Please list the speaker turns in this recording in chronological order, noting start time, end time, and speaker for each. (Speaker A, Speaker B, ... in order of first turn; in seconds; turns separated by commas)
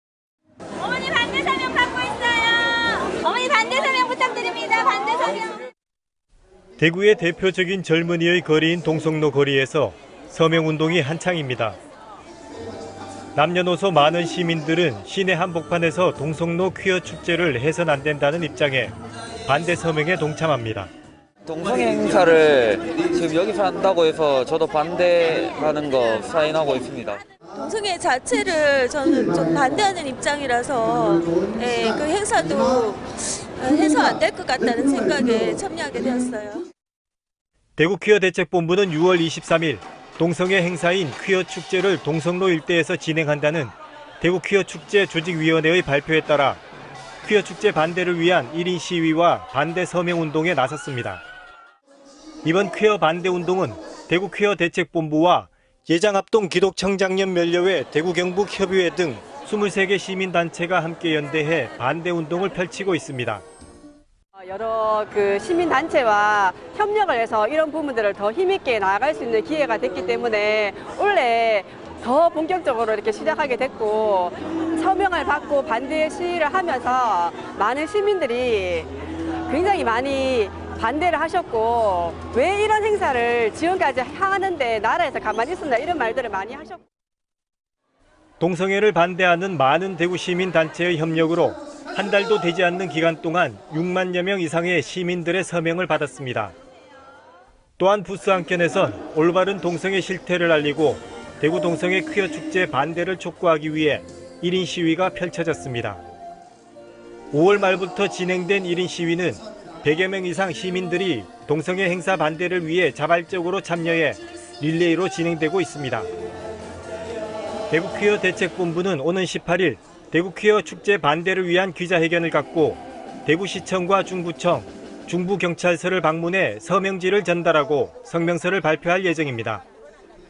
Speaker A: 0.8-5.5, Speaker B: 6.8-11.8, Speaker B: 13.3-18.9, Speaker B: 19.4-20.9, Speaker C: 21.4-27.2, Speaker D: 27.6-36.6, Speaker B: 37.8-46.6, Speaker B: 47.2-51.2, Speaker B: 52.4-63.4, Speaker E: 64.4-78.9, Speaker E: 79.5-86.8, Speaker B: 88.4-96.5, Speaker B: 97.8-106.0, Speaker B: 107.3-116.1, Speaker B: 117.7-129.6